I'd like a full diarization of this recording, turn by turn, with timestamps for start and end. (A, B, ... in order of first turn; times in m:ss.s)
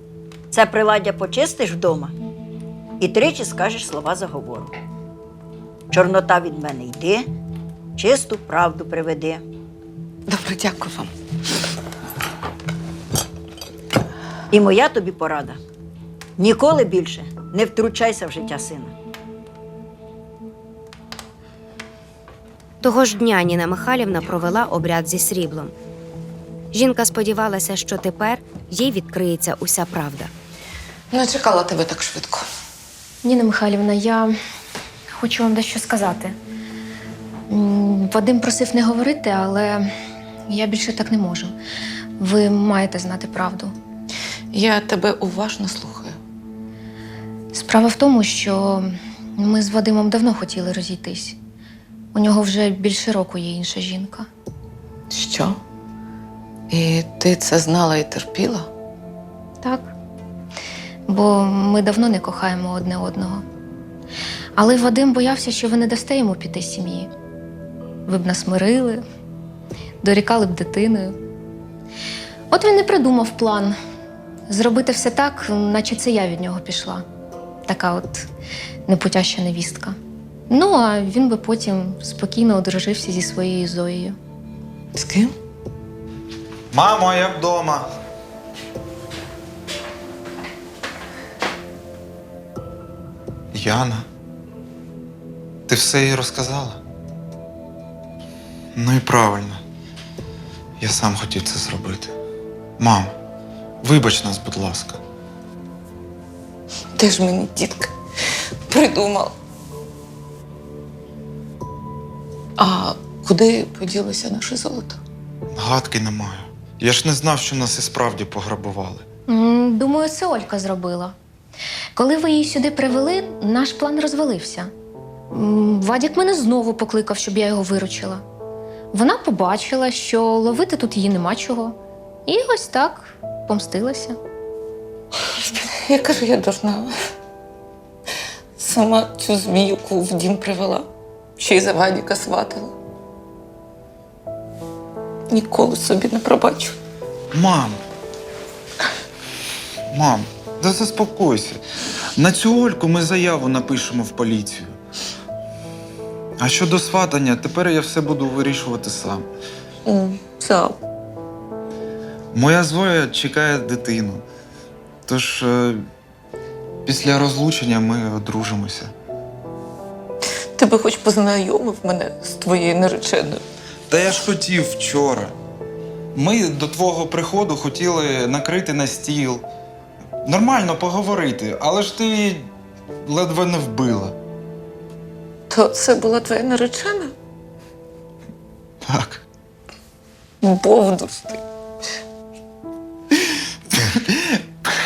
0:00.5-0:02.2 A
0:03.0-0:04.7 A
0:05.9-0:07.3 A
0:08.0-0:09.4 A
0:10.3-0:11.1 B
0:14.5-0:15.6 A
0:16.4-0:19.0 A
0:22.8-0:25.7 C
0:26.7-0:30.3 C
0:31.1-0:32.5 B
0:33.2-0:34.3 D
0:35.1-0:36.4 D
0:37.5-0:39.9 D
0:40.5-0:41.5 D
0:42.2-0:43.8 D
0:44.5-0:46.2 B
0:47.5-0:51.4 D
0:52.1-0:54.3 D
0:55.1-0:55.6 B
0:56.7-0:58.7 B
0:59.6-0:59.9 D
1:01.1-1:03.4 D
1:04.6-1:07.1 D
1:08.1-1:09.0 D
1:10.0-1:11.2 D
1:12.5-1:13.8 D
1:14.5-1:17.0 D
1:17.7-1:18.3 D
1:18.9-1:20.0 D
1:20.5-1:24.2 D
1:24.9-1:25.4 B
1:26.7-1:27.9 E
1:33.5-1:34.0 E
1:35.7-1:36.8 E
1:38.8-1:39.6 E
1:40.8-1:42.2 E
1:42.8-1:43.1 E
1:43.8-1:45.0 E
1:47.0-1:49.4 B
1:52.6-1:55.0 B
1:55.6-1:59.1 E
1:59.3-2:01.2 D
2:02.0-2:04.7 D
2:05.3-2:08.2 D
2:08.9-2:14.2 D
2:15.3-2:16.9 B
2:18.6-2:22.8 B
2:25.3-2:26.8 B
2:27.3-2:27.8 E
2:29.9-2:31.6 E
2:32.2-2:34.8 E
2:36.4-2:39.3 E
2:39.9-2:40.8 B
2:42.3-2:44.2 E
2:45.1-2:45.9 E
2:46.8-2:48.9 E
2:50.6-2:53.4 B
2:53.9-2:55.4 E
2:56.2-2:59.4 E
3:00.2-3:02.5 E
3:03.0-3:04.2 E
3:05.5-3:07.1 B
3:08.8-3:09.2 E
3:10.4-3:11.4 B
3:13.7-3:14.4 E